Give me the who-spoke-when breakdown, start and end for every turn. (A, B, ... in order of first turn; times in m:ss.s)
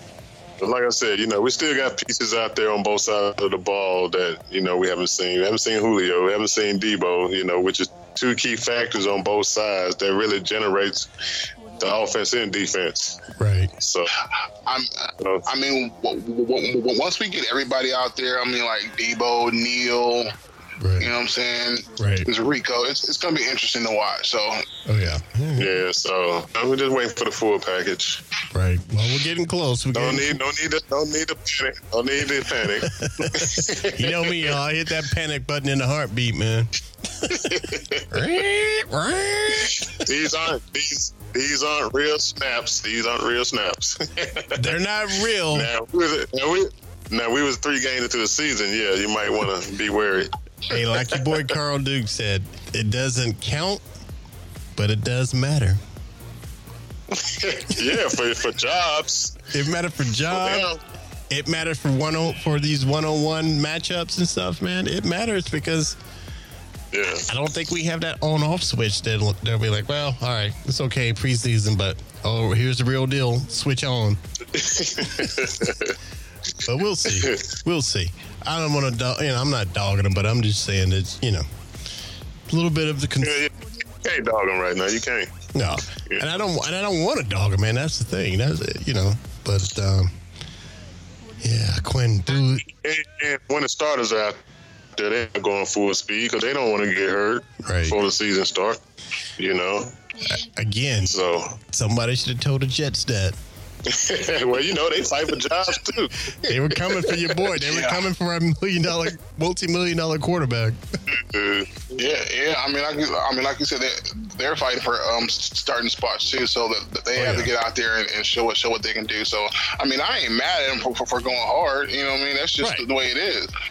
0:00.6-0:11.1 A
0:11.8-0:13.2 A
0:13.4-0:13.7 B
0:13.8-0:14.1 A
0:14.6-0:20.3 C
0:15.2-0:15.4 A
0:20.8-0:21.1 B
0:21.0-0:24.6 C
0:22.0-0:22.3 B
0:24.8-0:25.7 B
0:25.6-0:28.2 A
0:28.5-0:30.4 B
0:29.9-0:34.6 A
0:32.8-0:37.5 B
0:37.3-0:38.1 A
0:38.1-0:39.9 B
0:39.8-0:44.7 A
0:44.5-0:45.7 B
0:45.5-0:51.5 A
0:50.7-0:53.8 B
0:54.7-0:55.8 B
0:57.1-0:59.5 A
0:59.5-1:00.7 B
1:00.3-1:00.8 A
1:01.3-1:06.0 B
1:06.9-1:07.3 A
1:07.3-1:14.2 B
1:14.5-1:16.0 A
1:15.0-1:15.3 B
1:16.6-1:21.4 B
1:17.0-1:17.5 A
1:22.5-1:23.4 B
1:23.2-1:25.3 A
1:25.5-1:30.1 B
1:26.0-1:26.3 A
1:31.4-1:32.6 B
1:32.6-1:34.4 A
1:35.0-1:38.8 A
1:37.6-1:38.0 B
1:39.4-1:39.9 A
1:40.5-1:41.1 B
1:41.1-1:41.6 A
1:41.7-1:43.4 B
1:43.8-1:47.3 A
1:46.4-1:50.8 B
1:47.6-1:48.0 C
1:51.1-1:51.8 A
1:51.9-2:03.5 C
1:57.2-1:57.5 B